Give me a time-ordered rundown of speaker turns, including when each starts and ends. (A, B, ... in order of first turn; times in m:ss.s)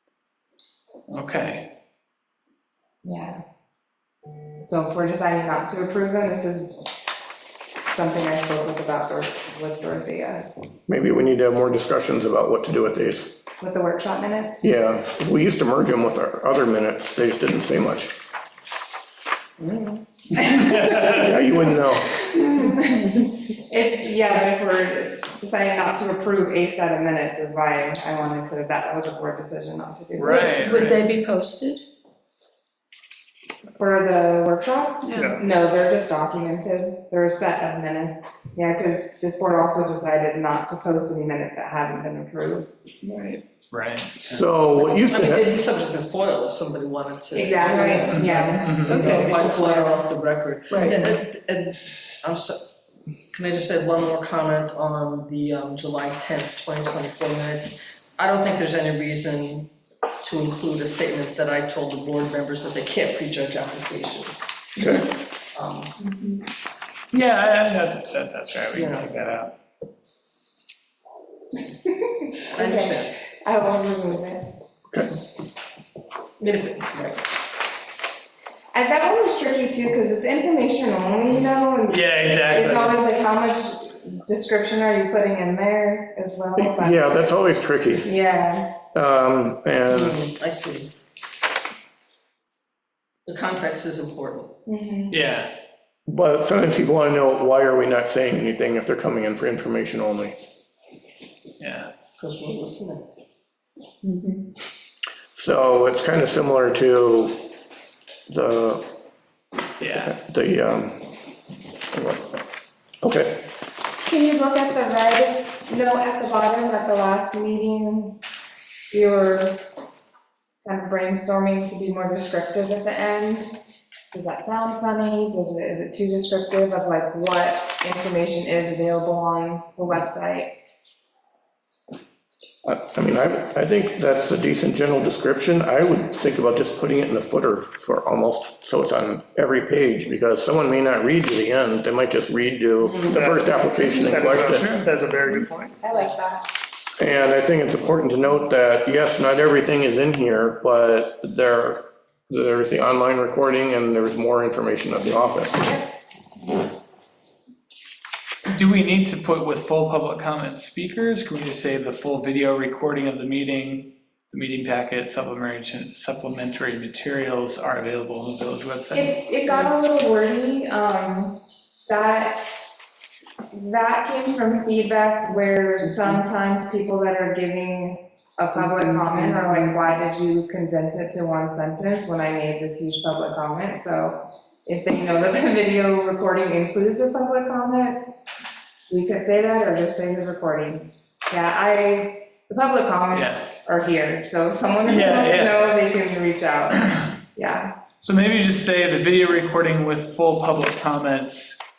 0:01.1-0:01.7 A
0:03.0-0:03.4 B
0:04.6-0:06.9 B
0:07.9-0:10.5 B
0:10.9-0:13.3 C
0:13.6-0:14.6 B
0:14.6-0:18.2 C
0:19.6-0:30.7 B
0:20.9-0:22.2 C
0:30.2-0:31.0 A
0:30.3-0:31.8 D
0:33.8-0:42.7 B
0:35.1-0:35.4 D
0:43.0-0:43.4 D
0:43.7-0:44.4 A
0:44.2-0:45.5 C
0:44.8-0:52.6 E
0:47.3-0:49.8 B
0:48.1-0:49.0 A
0:48.9-0:49.8 D
0:50.7-0:51.2 D
0:53.3-1:05.9 E
1:04.8-1:05.1 C
1:07.1-1:09.5 A
1:08.8-1:09.2 E
1:11.7-1:14.5 B
1:12.5-1:13.2 E
1:16.4-1:17.3 E
1:18.7-1:27.4 B
1:21.8-1:23.0 A
1:26.6-1:28.1 C
1:28.0-1:28.8 B
1:28.9-1:30.2 C
1:29.9-1:30.9 E
1:33.2-1:34.5 E
1:34.7-1:35.2 B
1:35.1-1:35.5 A
1:36.1-1:40.4 C
1:41.6-1:41.9 A
1:42.2-1:43.1 E
1:44.0-1:44.4 D
1:45.3-1:47.5 C
1:48.3-1:48.8 C
1:49.8-1:50.1 A
1:49.9-1:51.1 C
1:51.9-1:52.4 C
1:53.0-1:53.5 C
1:54.0-1:58.2 B
1:58.9-1:59.6 B
2:00.6-2:03.5 B
2:04.1-2:10.6 B
2:12.6-2:24.7 C
2:22.9-2:23.2 E
2:23.1-2:25.8 F
2:24.5-2:24.9 A
2:25.8-2:26.5 B
2:27.0-2:35.8 C
2:38.5-2:49.2 A
2:48.9-2:52.4 B
2:53.5-3:08.1 B
3:08.9-3:17.7 B
3:13.1-3:13.5 A
3:14.8-3:15.8 A
3:18.0-3:21.6 A